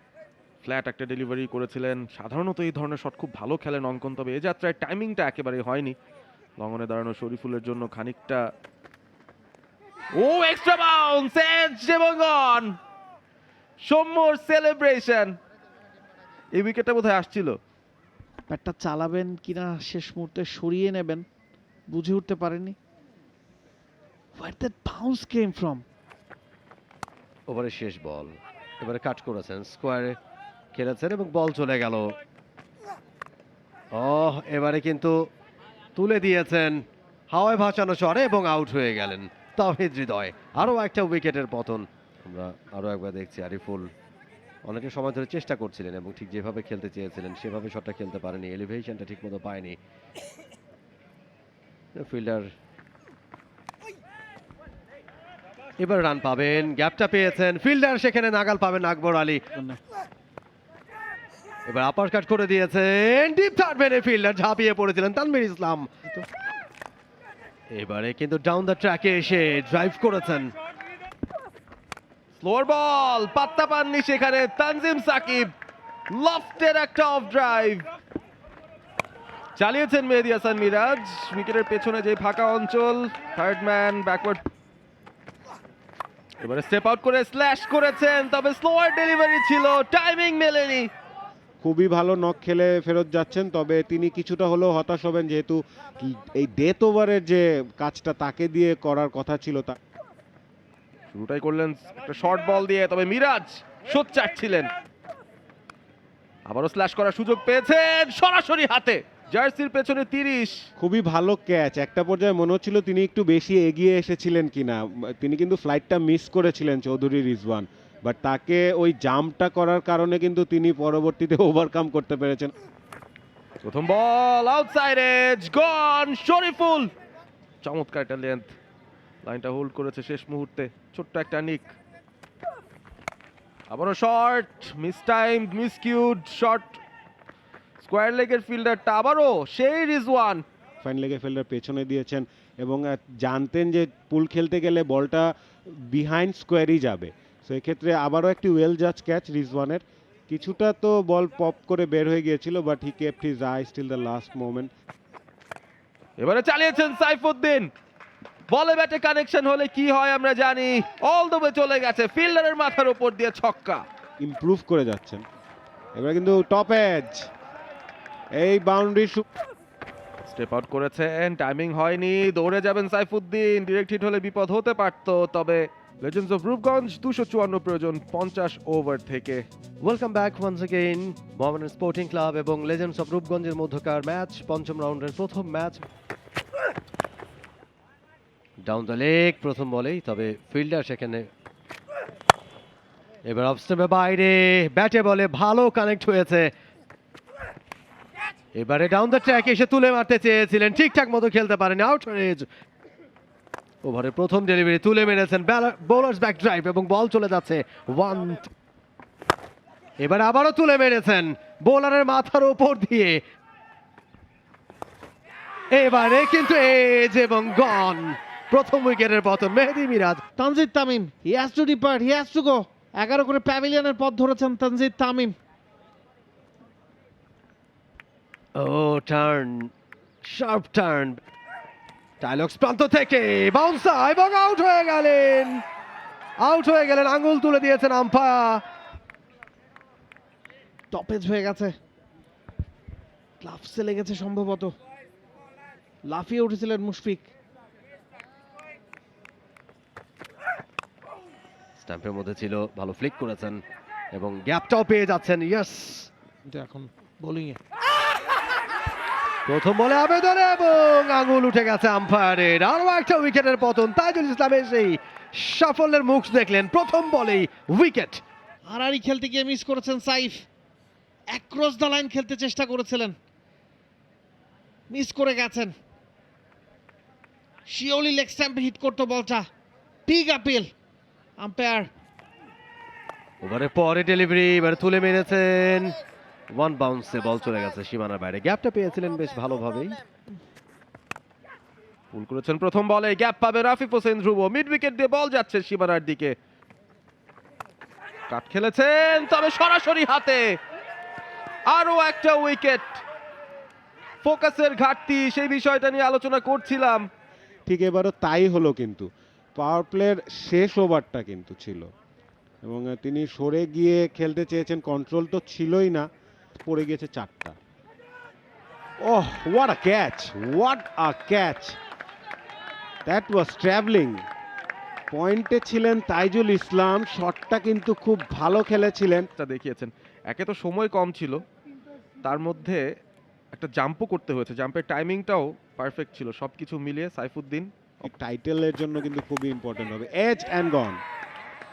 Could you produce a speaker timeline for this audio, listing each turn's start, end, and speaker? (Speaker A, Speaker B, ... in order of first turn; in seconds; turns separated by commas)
Speaker A: 0.6-6.0, Speaker A: 6.6-8.4, Speaker A: 10.2-12.7, Speaker A: 13.8-15.3, Speaker A: 16.6-17.6, Speaker B: 18.5-21.2, Speaker B: 21.9-22.8, Speaker B: 24.3-25.8, Speaker C: 27.5-30.1, Speaker C: 30.7-32.1, Speaker C: 34.0-35.1, Speaker C: 36.0-36.7, Speaker C: 37.3-43.9, Speaker C: 44.6-49.7, Speaker C: 52.0-52.5, Speaker C: 55.8-59.4, Speaker B: 59.5-59.8, Speaker C: 61.7-65.9, Speaker C: 67.7-70.5, Speaker A: 72.3-75.5, Speaker A: 76.1-77.9, Speaker A: 79.5-84.4, Speaker A: 86.4-90.9, Speaker D: 91.6-99.8, Speaker A: 101.1-104.7, Speaker A: 106.5-110.5, Speaker D: 110.8-122.5, Speaker A: 123.6-126.9, Speaker A: 127.6-128.5, Speaker A: 129.2-131.7, Speaker A: 133.7-136.8, Speaker A: 137.8-140.4, Speaker D: 140.8-145.3, Speaker D: 145.8-154.7, Speaker A: 156.2-157.7, Speaker A: 158.5-163.8, Speaker D: 164.2-165.2, Speaker D: 165.9-167.2, Speaker D: 168.4-169.2, Speaker A: 170.2-179.4, Speaker C: 179.8-185.8, Speaker C: 188.7-191.3, Speaker C: 193.3-196.5, Speaker C: 198.5-202.4, Speaker C: 203.8-208.5, Speaker C: 210.0-213.2, Speaker C: 215.7-220.2, Speaker B: 220.4-225.3, Speaker C: 228.6-229.7, Speaker C: 230.2-231.2, Speaker C: 232.2-235.6, Speaker C: 236.4-238.6, Speaker B: 240.9-241.8, Speaker B: 243.4-244.7, Speaker B: 246.0-247.3, Speaker C: 251.8-253.6, Speaker C: 254.1-256.1, Speaker B: 256.4-257.6, Speaker C: 259.5-268.2, Speaker B: 268.6-270.4, Speaker B: 271.3-273.1, Speaker B: 274.9-275.7, Speaker B: 277.6-279.4, Speaker B: 280.1-280.7, Speaker B: 281.4-281.9, Speaker C: 283.4-286.0, Speaker C: 286.5-290.0, Speaker A: 292.1-296.3, Speaker A: 298.3-300.4, Speaker A: 301.7-303.0, Speaker A: 304.2-307.0, Speaker D: 307.7-311.9, Speaker D: 312.6-317.6, Speaker D: 319.1-321.8, Speaker D: 323.1-324.2, Speaker D: 325.1-329.3, Speaker A: 329.4-331.4, Speaker A: 332.2-332.8, Speaker A: 333.5-337.7, Speaker D: 338.0-341.0